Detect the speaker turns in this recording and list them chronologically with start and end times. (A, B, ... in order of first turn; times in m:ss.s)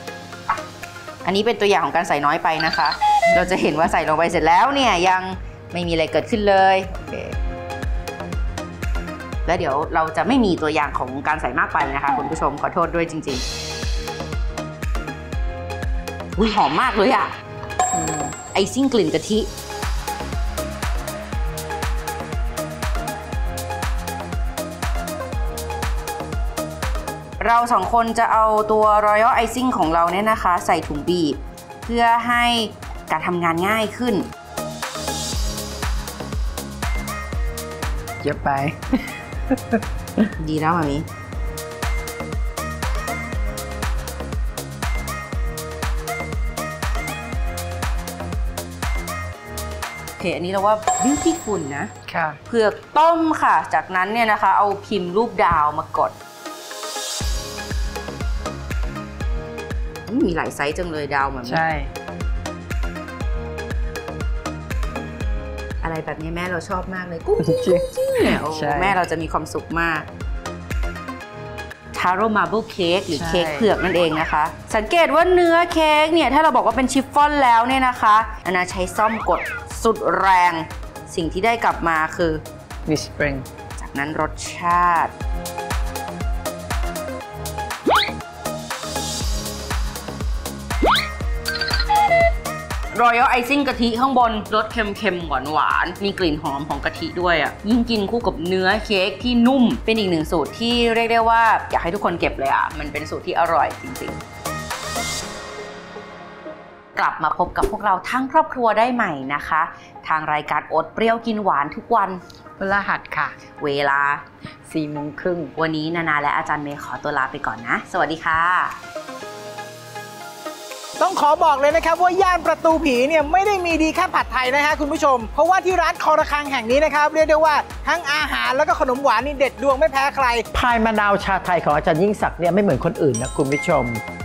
0:01.2-0:07.4 A
0:09.4-0:13.4 A
0:16.4-0:17.3 A
0:17.9-0:18.3 B
0:18.5-0:19.5 A
0:27.4-0:34.2 A
0:38.2-0:39.8 B
0:40.4-0:41.0 A
0:50.2-0:51.9 A
0:52.1-0:52.4 B
0:52.5-0:56.1 A
1:00.1-1:01.6 A
1:01.4-1:01.9 B
1:05.8-1:10.1 A
1:07.4-1:09.0 B
1:11.9-1:22.4 A
1:13.1-1:13.7 B
1:22.8-1:23.5 B
1:23.8-1:25.1 A
1:32.9-1:44.2 A
1:47.0-1:52.2 A
1:52.6-1:53.4 B
1:53.6-1:54.2 A
1:54.6-1:55.5 B
1:55.6-1:58.8 A
2:01.0-2:10.4 C
2:10.5-2:14.0 D